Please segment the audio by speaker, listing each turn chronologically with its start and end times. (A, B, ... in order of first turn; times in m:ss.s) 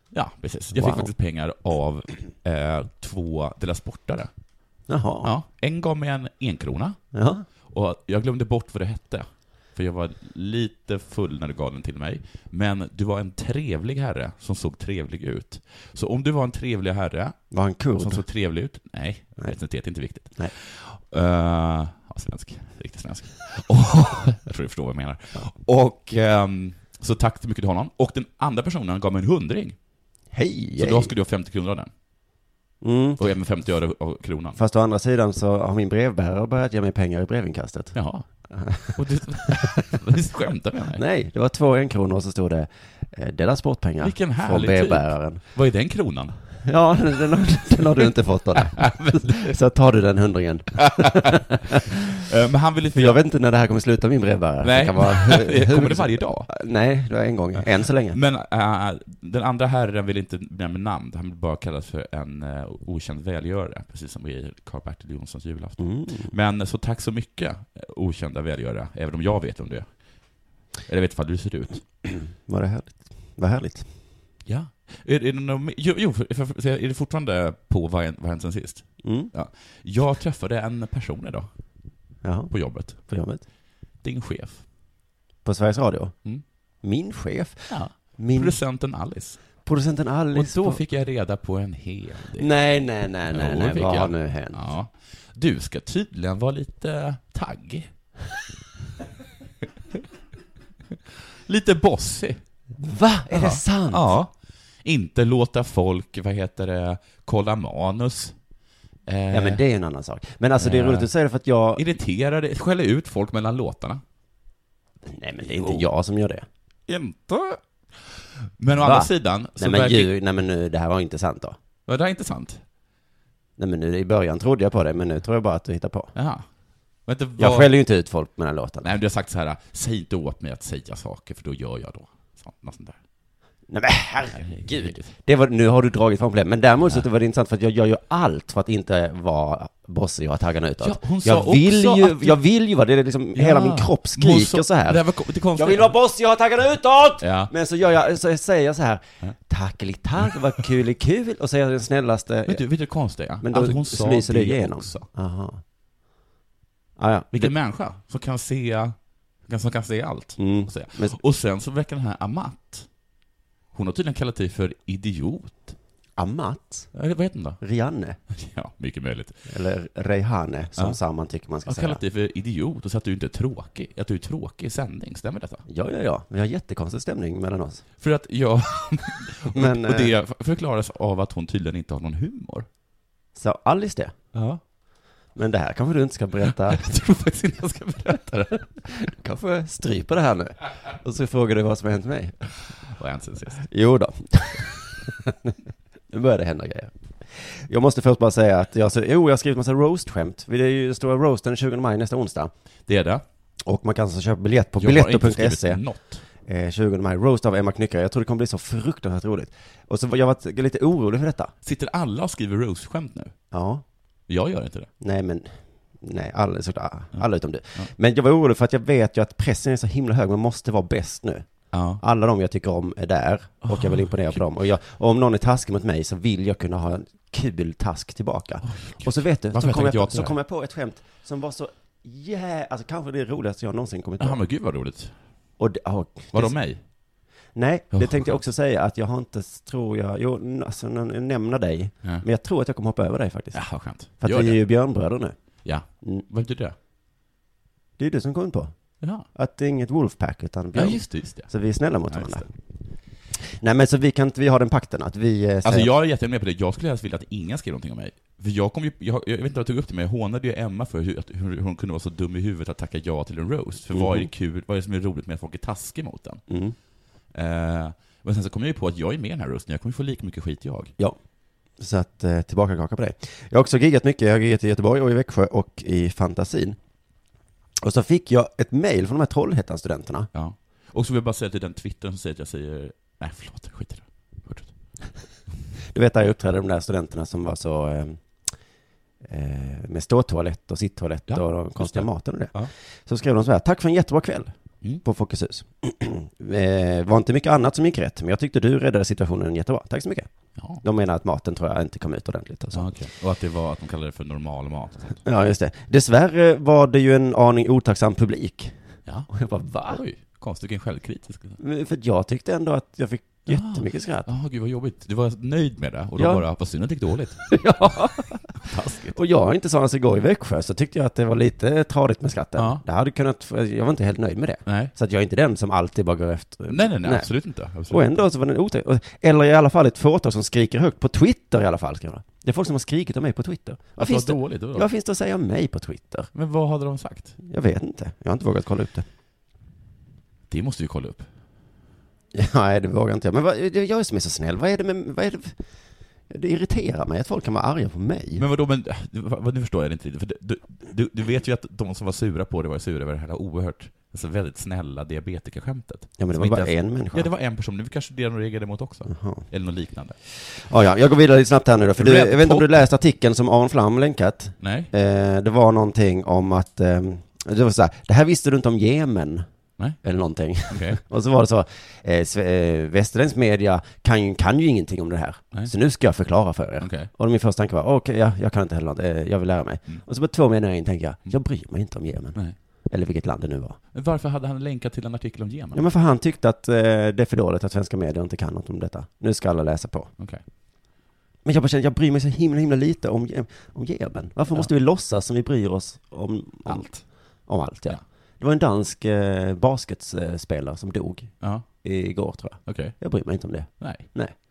0:00.1-0:04.3 A
0:00.7-0:01.1 B
0:04.9-0:05.3 B
0:05.2-0:07.0 A
0:07.1-0:07.4 B
0:07.7-0:29.8 A
0:17.5-0:18.2 B
0:30.3-0:31.1 B
0:30.8-0:31.9 A
0:32.8-0:33.2 B
0:33.2-0:34.6 A
0:34.6-0:37.9 B
0:37.9-0:38.2 A
0:38.5-0:39.0 B
0:38.9-0:41.0 A
0:40.9-0:45.4 B
0:44.0-0:46.3 A
0:46.6-0:52.0 B
0:48.7-0:49.5 A
0:50.8-0:53.2 A
0:52.9-0:58.2 B
0:54.6-0:56.5 A
0:58.1-1:09.9 A
1:05.8-1:06.3 B
1:10.9-1:11.8 A
1:12.0-1:13.9 B
1:14.4-1:21.5 A
1:19.0-1:19.3 B
1:22.2-1:23.4 B
1:22.5-1:23.0 A
1:24.0-1:24.6 A
1:25.4-1:26.1 B
1:26.8-1:28.6 B
1:27.7-1:29.4 A
1:29.6-1:30.8 B
1:30.3-1:32.5 A
1:32.4-1:34.6 B
1:33.3-1:37.9 A
1:41.4-1:42.4 A
1:42.8-1:44.1 B
1:43.3-1:44.3 A
1:44.8-1:48.3 A
1:49.1-1:49.6 A
1:49.3-1:51.8 B
1:50.6-1:51.1 A
1:51.8-1:54.0 A
1:55.0-1:56.4 B
1:55.4-1:55.8 A
1:56.9-2:00.1 A
1:58.8-2:01.6 B
2:01.8-2:02.6 A
2:03.6-2:06.1 B
2:06.1-2:06.5 A
2:07.0-2:07.8 A
2:07.4-2:08.9 B
2:08.8-2:13.0 A
2:13.7-2:25.0 B
2:14.3-2:15.1 A
2:20.8-2:22.4 A
2:23.3-2:25.9 A
2:25.6-2:32.6 B
2:27.2-2:27.5 A
2:32.4-2:35.1 A
2:33.4-2:35.6 B
2:37.0-2:37.5 B
2:37.3-2:42.9 A
2:40.4-2:41.2 B
2:43.7-2:45.8 A
2:46.2-2:46.9 B
2:46.9-2:47.6 A
2:47.6-2:48.2 B
2:48.3-2:49.4 A
2:49.5-2:52.0 B
2:51.7-2:55.6 A
2:55.7-2:57.8 B
2:58.0-3:02.7 A
2:59.5-3:00.1 B
3:03.3-3:04.1 B
3:04.3-3:04.6 A
3:05.3-3:06.8 B
3:06.6-3:08.7 A
3:08.9-3:12.4 B
3:12.9-3:13.6 A
3:13.7-3:15.6 B
3:16.1-3:22.5 B
3:22.9-3:23.2 A
3:23.6-3:25.8 B
3:24.8-3:26.2 A
3:26.4-3:31.5 B
3:31.6-3:33.3 A
3:33.5-3:33.8 B
3:34.3-3:34.9 A
3:35.0-3:41.4 B
3:37.1-3:37.9 A
3:41.7-3:42.0 A
3:42.0-3:54.4 B
3:43.6-3:44.4 A
3:48.6-3:50.3 A
3:54.2-3:55.1 A
3:55.6-3:56.5 B
3:56.3-3:56.8 A
3:57.5-4:03.6 B
3:57.9-3:58.4 A
4:03.5-4:04.6 A
4:04.2-4:05.3 B
4:05.6-4:06.7 A
4:08.0-4:08.7 B
4:09.0-4:09.3 A
4:09.3-4:12.5 B
4:10.7-4:11.5 A
4:12.1-4:12.5 A
4:13.5-4:15.9 B
4:15.6-4:26.4 A
4:23.9-4:24.3 B
4:26.5-4:26.7 B
4:27.3-4:30.9 A
4:31.8-4:36.8 B
4:37.8-4:40.3 B
4:40.3-4:44.7 A
4:45.9-4:48.2 B
4:49.2-4:54.5 B
4:51.3-4:52.7 A
4:55.0-5:00.3 B
5:00.8-5:02.9 B
5:02.7-5:05.2 A
5:05.2-5:08.7 B
5:09.3-5:10.0 B
5:09.9-5:11.6 A
5:11.6-5:14.3 B
5:13.5-5:17.5 A
5:16.2-5:16.4 B
5:17.5-5:18.4 B
5:18.6-5:19.2 A
5:19.1-5:27.3 B
5:22.6-5:22.8 A
5:24.6-5:24.9 A
5:26.7-5:28.2 A
5:27.9-5:36.3 B
5:34.0-5:34.8 A
5:36.3-5:37.4 A
5:37.4-5:39.0 B
5:40.5-5:41.3 A
5:42.3-5:45.5 B
5:46.3-5:48.4 B
5:48.4-6:00.2 A
5:56.2-5:57.3 B
5:59.1-5:59.4 B
6:00.5-6:09.4 B
6:02.0-6:02.8 A
6:04.6-6:04.9 A
6:10.0-6:22.4 B
6:10.7-6:11.0 A
6:16.8-6:17.1 A
6:22.9-6:23.8 B
6:23.9-6:25.8 A
6:25.7-6:30.1 B
6:31.4-6:36.9 B
6:36.6-6:37.0 A
6:37.5-6:41.3 B
6:41.8-6:44.3 B
6:42.6-6:43.0 A
6:43.8-6:44.1 A